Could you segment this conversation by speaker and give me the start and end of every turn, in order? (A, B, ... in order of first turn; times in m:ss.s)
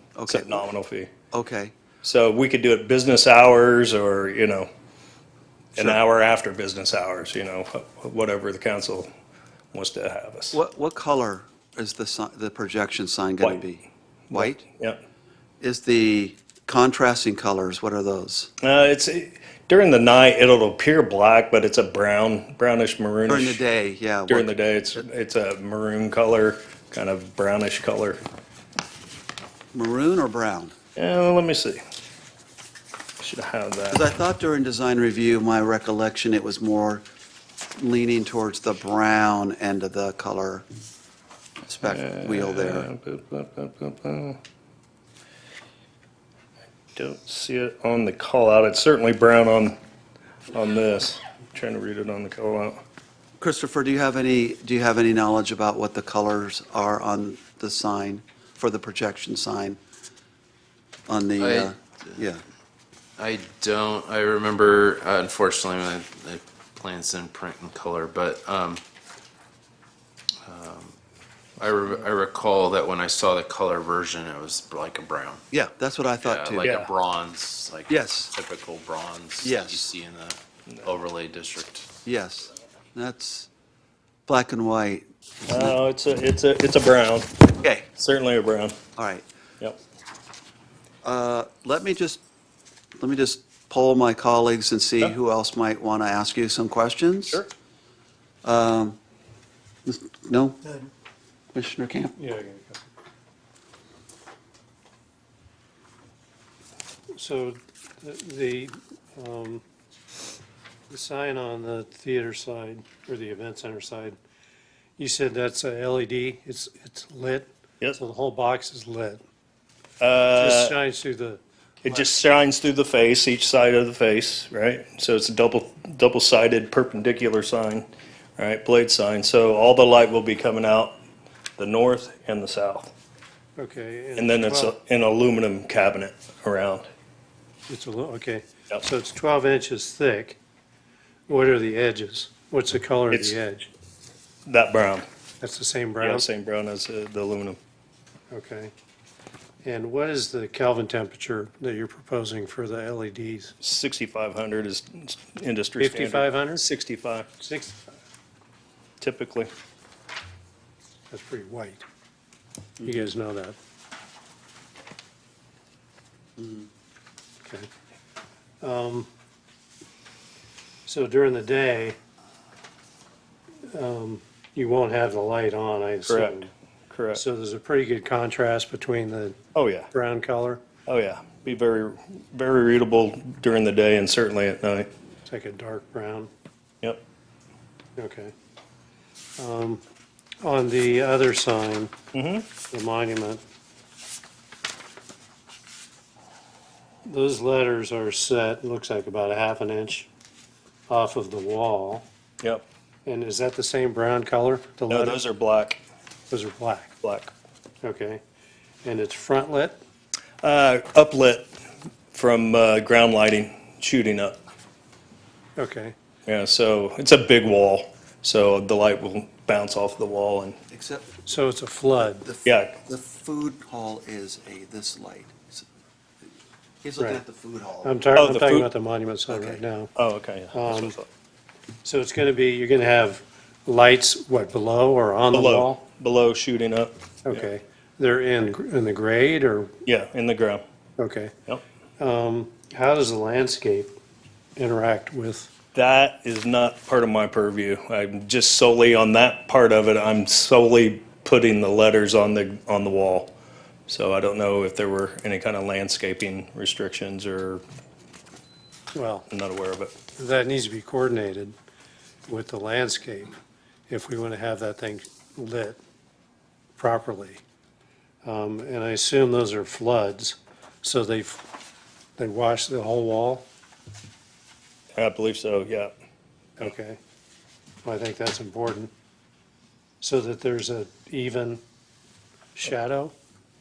0:00.2-0:00.6 A
0:00.3-0:01.1 B
0:01.3-0:01.7 A
0:02.0-0:04.7 B
0:05.7-0:09.1 B
0:09.7-0:10.6 B
0:10.5-0:14.6 A
0:14.3-0:15.0 B
0:15.6-0:18.5 A
0:18.6-0:23.6 B
0:23.3-0:24.5 A
0:24.3-0:28.2 B
0:29.7-0:30.7 A
0:31.0-0:31.8 B
0:33.2-0:34.1 B
0:33.9-0:37.0 A
0:37.8-0:40.6 A
0:41.6-0:42.9 A
0:41.8-0:44.4 B
0:46.9-0:49.8 B
0:50.5-0:52.8 B
0:53.4-0:59.8 A
1:01.1-1:02.4 A
1:01.4-1:02.2 C
1:03.2-1:08.8 C
1:10.4-1:11.0 C
1:11.6-1:15.4 C
1:15.5-1:16.7 A
1:16.2-1:21.9 C
1:16.6-1:16.9 B
1:17.9-1:18.3 A
1:19.4-1:19.9 A
1:22.0-1:23.5 A
1:24.3-1:25.0 A
1:25.5-1:27.3 B
1:27.6-1:27.9 A
1:28.0-1:28.8 B
1:29.0-1:29.2 A
1:31.0-1:32.2 A
1:33.0-1:37.4 A
1:38.4-1:39.0 A
1:39.8-1:40.6 A
1:41.5-1:42.2 A
1:42.2-1:42.8 D
1:47.1-1:49.6 D
1:50.9-1:54.2 D
1:55.0-1:59.2 D
2:00.0-2:00.7 B
2:00.3-2:02.0 D
2:01.8-2:11.0 B
2:11.6-2:12.9 B
2:13.6-2:14.7 D
2:14.2-2:16.9 B
2:17.7-2:20.4 D
2:21.3-2:23.7 D
2:23.1-2:23.4 B
2:24.4-2:25.0 B
2:25.4-2:26.2 D
2:26.0-2:27.6 B
2:28.3-2:28.7 D
2:29.6-2:33.5 D
2:33.6-2:37.4 B
2:35.8-2:36.6 D
2:37.4-2:37.8 D
2:39.0-2:39.5 B
2:41.1-2:41.8 D
2:42.8-2:43.6 D
2:47.4-2:47.7 D
2:48.6-2:49.1 D
2:50.8-2:52.0 D
2:53.7-2:56.5 D
2:56.1-2:57.2 B
2:57.1-2:59.4 D
2:59.5-2:59.9 B
2:59.9-3:00.6 D
3:00.9-3:04.9 B
3:05.2-3:06.3 D
3:08.0-3:08.3 D
3:09.4-3:09.8 D
3:10.4-3:11.9 D
3:12.1-3:12.5 B
3:12.7-3:13.4 D
3:17.0-3:20.1 D
3:20.9-3:22.0 D
3:23.0-3:25.2 D
3:24.9-3:25.8 B
3:26.3-3:26.9 D
3:27.0-3:27.3 B
3:27.8-3:28.2 D
3:28.8-3:29.8 D
3:30.4-3:31.5 B
3:32.1-3:34.4 B
3:35.6-3:35.9 D
3:36.3-3:40.6 B
3:40.7-3:41.1 A
3:41.2-3:42.2 D
3:42.2-3:45.7 A
3:42.4-3:42.7 B
3:46.8-3:48.0 A
3:47.0-3:47.2 D
3:47.8-3:49.9 D
3:48.2-3:48.7 B
3:49.3-3:49.6 A
3:50.0-3:51.1 B
3:50.5-3:51.0 D
3:51.8-3:55.8 D
3:55.3-3:57.5 B
3:57.2-3:59.7 D
3:59.8-4:00.6 B
4:01.0-4:01.3 D
4:02.0-4:03.9 D
4:04.6-4:05.5 D
4:05.7-4:13.3 B
4:13.9-4:17.6 B
4:18.9-4:19.3 D
4:19.3-4:19.9 B
4:20.1-4:21.5 D
4:22.3-4:23.4 D
4:23.9-4:25.8 D
4:26.8-4:27.4 D
4:28.2-4:31.4 D
4:32.2-4:33.5 D
4:35.0-4:35.9 B
4:36.6-4:37.0 D
4:37.8-4:38.9 D
4:40.0-4:41.6 D
4:42.5-4:43.1 D